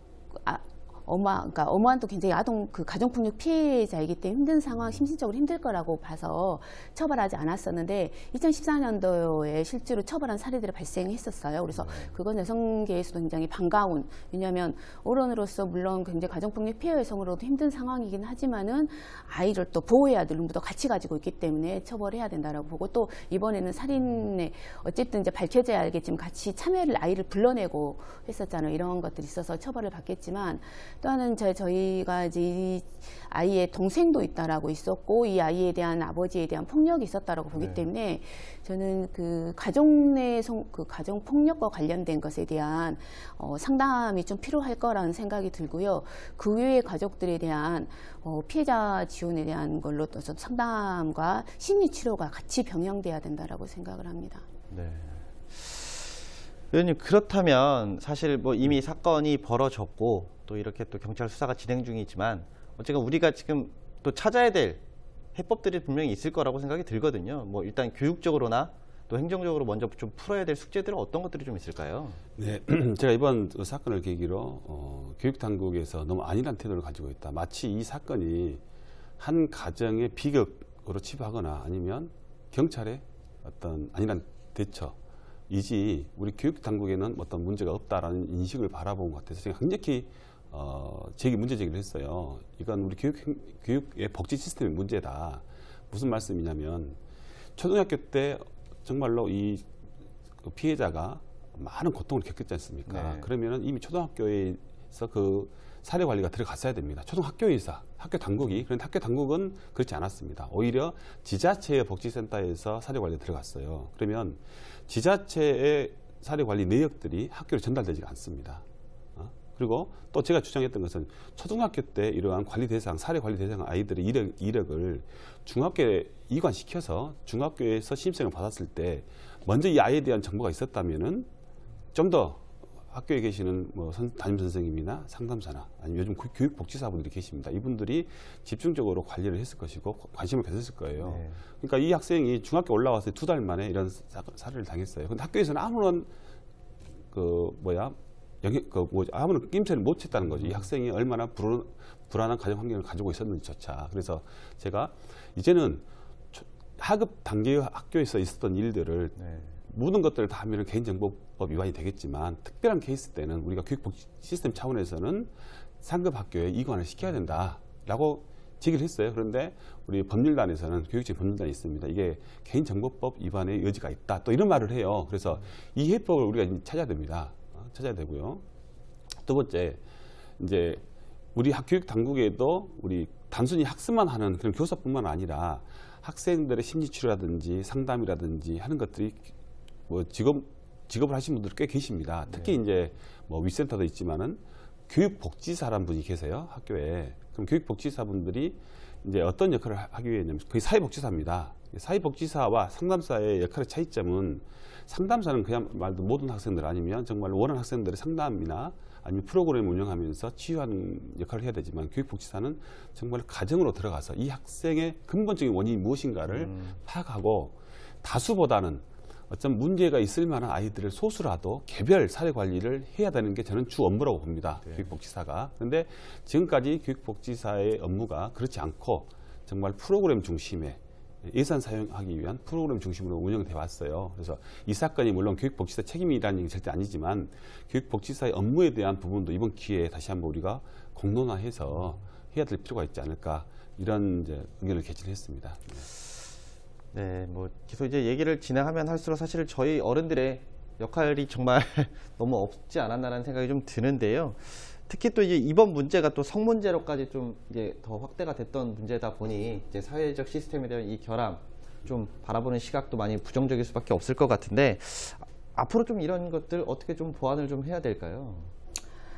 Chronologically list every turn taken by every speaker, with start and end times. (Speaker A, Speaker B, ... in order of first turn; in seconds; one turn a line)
Speaker A: 0.4-54.5
Speaker B: 11.7-12.1
Speaker B: 37.5-37.9
Speaker B: 54.7-56.2
Speaker B: 56.7-64.8
Speaker B: 65.3-72.2
Speaker C: 72.4-78.6
Speaker C: 79.2-85.0
Speaker C: 85.5-97.0
Speaker C: 97.5-99.7
Speaker C: 100.4-118.6
Speaker B: 102.9-103.3
Speaker C: 119.2-131.3
Speaker C: 131.9-146.1
Speaker B: 141.0-141.4
Speaker C: 147.1-159.2
Speaker B: 159.2-159.6
Speaker C: 159.7-165.3
Speaker C: 165.8-178.4
Speaker C: 179.2-179.8
Speaker C: 180.4-180.8
Speaker C: 181.3-189.3
Speaker C: 189.9-245.9
Speaker B: 216.3-216.8
Speaker B: 246.9-268.5